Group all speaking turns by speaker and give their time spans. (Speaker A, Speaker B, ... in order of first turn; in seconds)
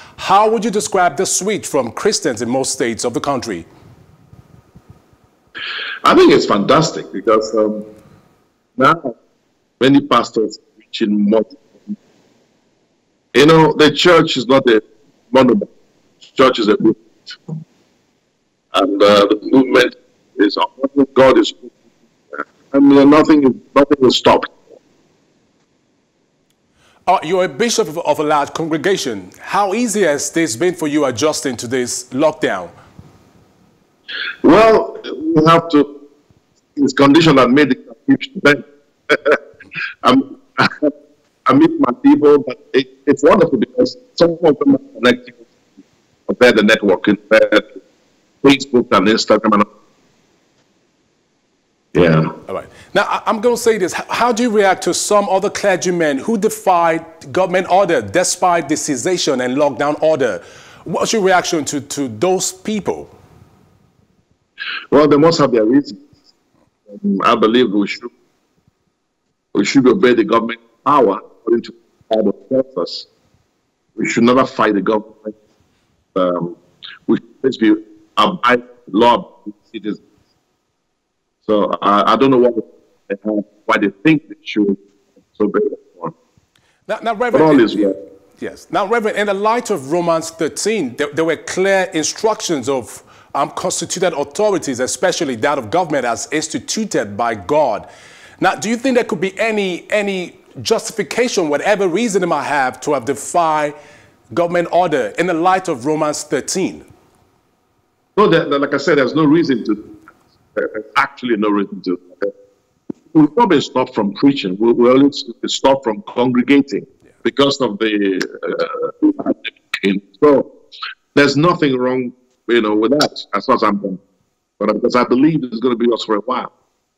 Speaker A: 0.2-3.7, 27.1-32.7, 52.5-63.1, 86.9-97.9, 98.4-103.8, 104.3-106.9
Speaker B: 6.0-7.9, 8.8-9.2, 9.8-12.0, 13.3-15.7, 16.2-17.5, 18.7-21.8, 22.3-24.8, 34.4-35.9, 36.8-39.4, 40.0-40.9, 41.5-45.5, 46.3-47.7, 48.4-49.7, 51.9-52.3, 64.9-66.0, 66.9-68.1, 69.5-73.1, 74.0-75.4, 76.2-80.0, 81.5-84.8, 85.3-86.1, 87.3-88.0, 108.2-109.9, 110.5-112.3, 113.1-120.5, 121.2-124.0, 124.6-126.5